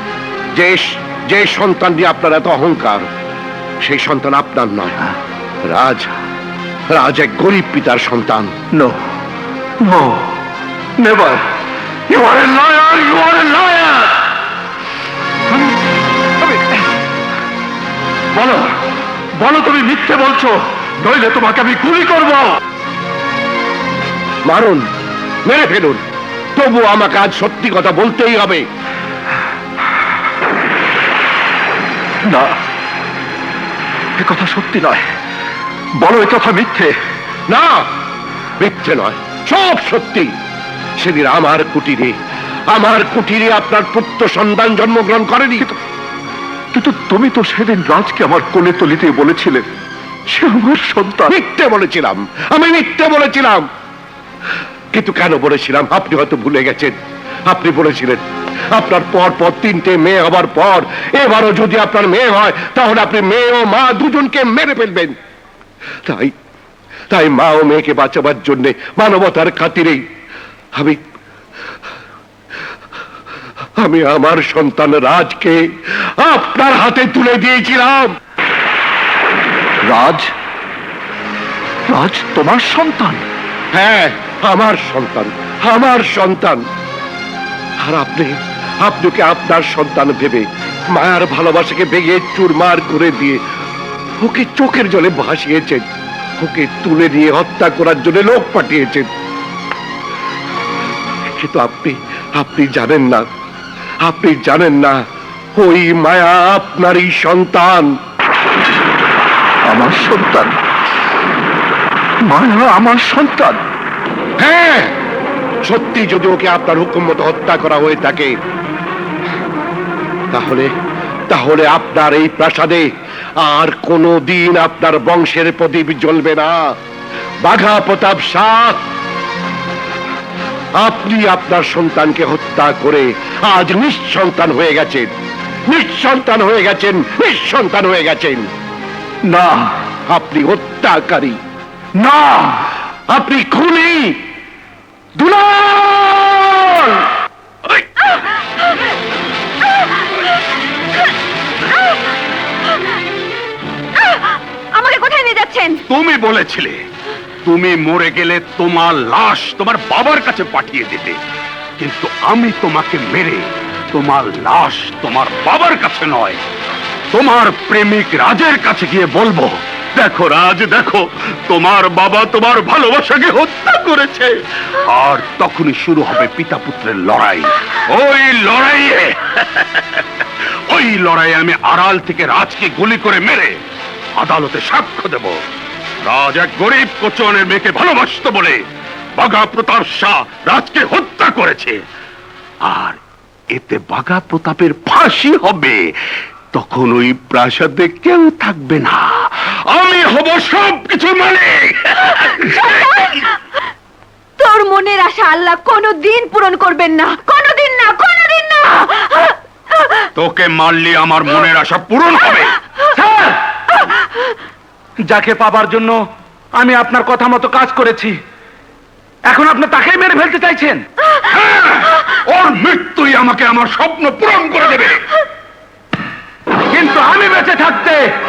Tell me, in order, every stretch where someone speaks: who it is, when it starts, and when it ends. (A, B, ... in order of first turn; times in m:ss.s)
0:00.5-0:03.1 A
0:03.8-0:05.1 A
0:05.6-0:06.1 A
0:06.9-0:08.5 A
0:08.7-0:09.0 B
0:09.8-0:10.3 B
0:11.0-0:11.4 B
0:12.1-0:14.2 B
0:18.4-0:18.8 B
0:19.4-0:22.6 B
0:24.5-0:24.8 A
0:25.4-0:26.0 A
0:26.6-0:28.6 A
0:32.2-0:32.6 B
0:34.2-0:35.0 B
0:36.0-0:37.0 B
0:37.5-0:37.8 A
0:38.6-0:40.3 A
0:41.0-0:42.2 A
0:42.7-0:45.7 A
0:46.7-0:49.7 B
0:50.3-0:51.3 B
0:51.2-0:53.7 A
0:54.9-0:57.0 A
0:57.5-1:05.1 A
1:06.0-1:06.3 A
1:07.1-1:10.0 A
1:13.8-1:18.1 A
1:19.8-1:20.3 B
1:21.9-1:23.2 B
1:23.7-1:26.6 A
1:27.8-1:33.4 A
1:34.2-1:35.8 A
1:36.4-1:39.1 A
1:41.3-1:43.2 A
1:44.0-1:45.0 A
1:45.6-1:47.9 A
1:49.6-1:50.6 B
1:52.2-1:53.6 B
1:54.4-1:54.9 A
1:55.6-1:58.3 A
2:00.3-2:00.7 A
2:01.3-2:02.9 A
2:03.4-2:06.7 A
2:07.4-2:08.8 A
2:10.8-2:15.1 A
2:15.7-2:18.5 A
2:19.2-2:19.7 B
2:20.1-2:21.4 A
2:22.0-2:22.7 B
2:23.1-2:24.2 A
2:25.2-2:27.1 B
2:34.0-2:35.8 C
2:35.9-2:36.9 D
2:37.4-2:41.2 D
2:41.8-2:46.4 D
2:47.1-3:03.6 D
3:04.2-3:05.4 D
3:06.0-3:11.8 D
3:12.6-3:13.0 D
3:13.5-3:16.0 D
3:16.5-3:23.3 D
3:22.7-3:23.0 C
3:24.4-3:30.0 C
3:30.2-3:32.6 D
3:32.9-3:33.2 C
3:35.1-3:36.0 E
3:36.6-3:38.2 E
3:39.3-3:40.8 E
3:41.3-3:45.0 D
3:46.7-3:48.0 E